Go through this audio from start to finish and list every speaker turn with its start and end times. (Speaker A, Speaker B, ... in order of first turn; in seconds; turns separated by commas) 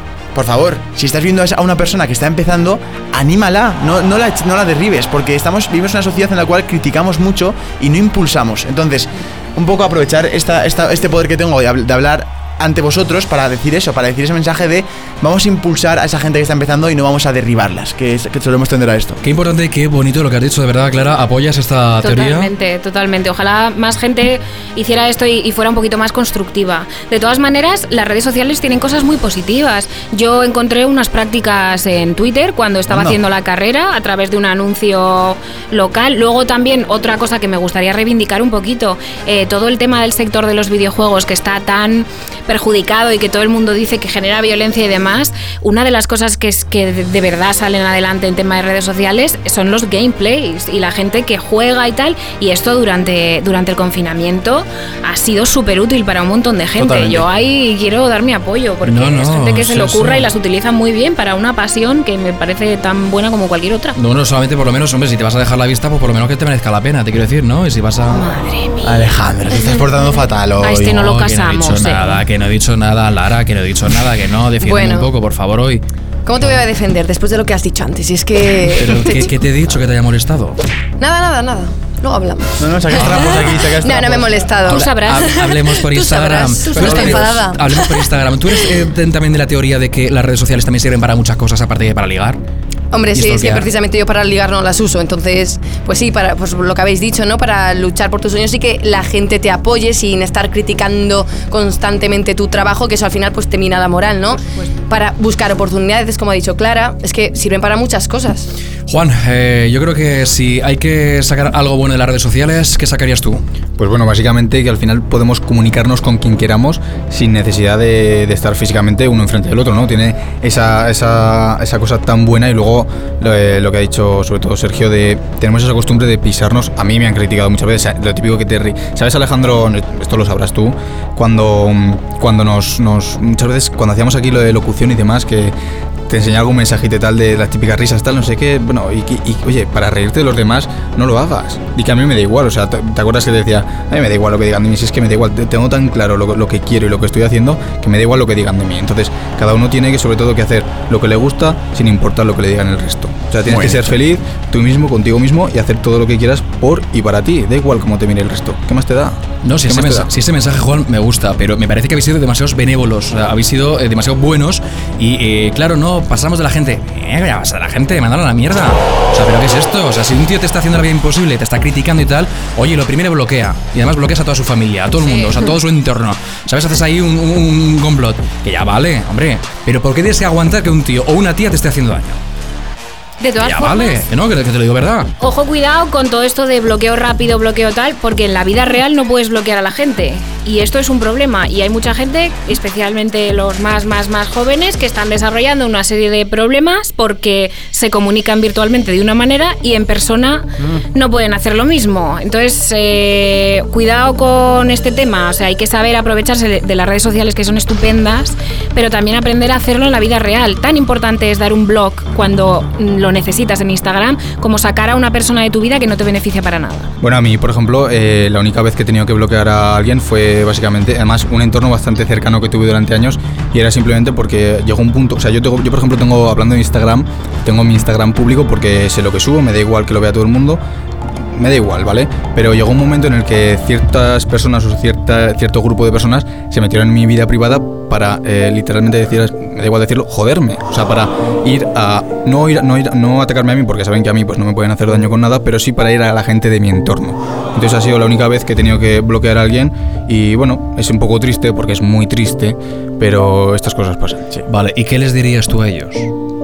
Speaker A: 0.3-19.2, Speaker B: 19.2-22.5, Speaker C: 22.0-64.0, Speaker A: 32.9-33.2, Speaker A: 56.8-57.2, Speaker B: 58.8-60.3, Speaker B: 63.9-68.2, Speaker C: 68.1-69.0, Speaker A: 68.8-71.2, Speaker C: 70.6-72.2, Speaker B: 71.0-75.8, Speaker D: 74.6-75.1, Speaker D: 76.2-79.7, Speaker B: 78.8-80.6, Speaker D: 81.0-88.0, Speaker A: 82.6-84.5, Speaker B: 82.9-83.5, Speaker B: 84.7-92.4, Speaker C: 84.7-85.4, Speaker A: 86.8-87.3, Speaker D: 92.9-108.5, Speaker B: 93.1-93.7, Speaker B: 108.9-113.4, Speaker E: 113.8-135.5, Speaker E: 136.1-160.1, Speaker A: 153.4-154.0, Speaker B: 159.4-182.2, Speaker C: 175.0-175.5, Speaker C: 183.2-184.1, Speaker B: 183.4-185.1, Speaker C: 185.2-216.9, Speaker E: 217.0-230.6, Speaker E: 231.2-254.3, Speaker B: 254.4-256.1